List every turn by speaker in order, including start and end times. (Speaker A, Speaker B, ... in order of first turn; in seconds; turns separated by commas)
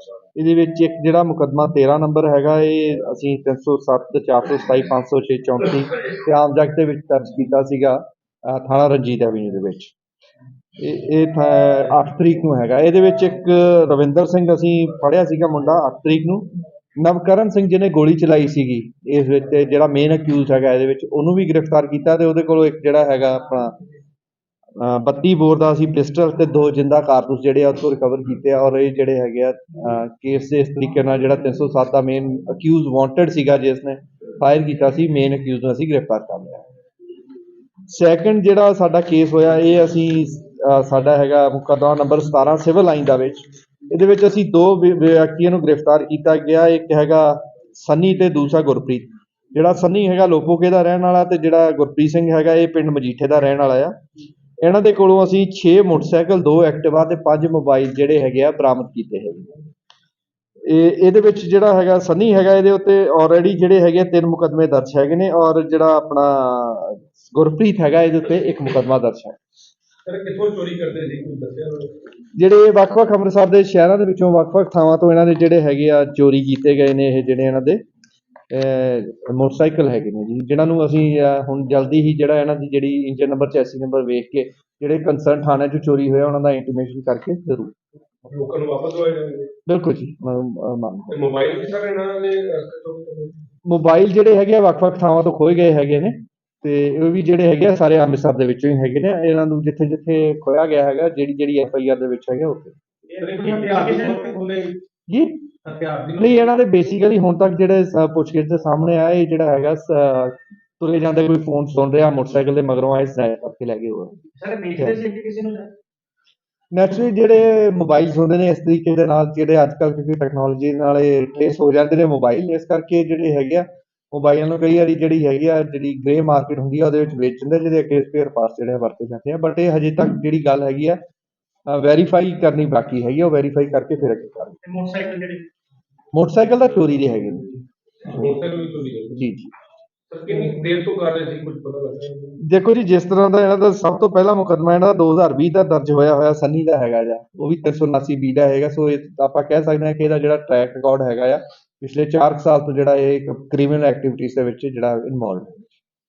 Speaker A: 0.3-9.9, Speaker A: 10.8-23.8, Speaker A: 24.8-36.6, Speaker A: 37.9-54.0, Speaker A: 54.6-59.5, Speaker A: 60.6-69.3, Speaker B: 70.0-72.0, Speaker A: 72.3-77.8, Speaker A: 78.5-87.7, Speaker B: 88.2-89.5, Speaker A: 89.7-91.2, Speaker B: 91.1-93.4, Speaker A: 93.6-102.7, Speaker C: 103.1-104.8, Speaker A: 105.1-105.4, Speaker C: 105.6-106.3, Speaker A: 106.1-114.2, Speaker C: 114.4-115.7, Speaker A: 116.7-131.0, Speaker A: 131.7-134.6, Speaker C: 134.6-135.5, Speaker A: 136.1-137.5, Speaker B: 138.0-139.3, Speaker A: 139.2-139.5, Speaker B: 140.1-142.4, Speaker A: 142.4-155.6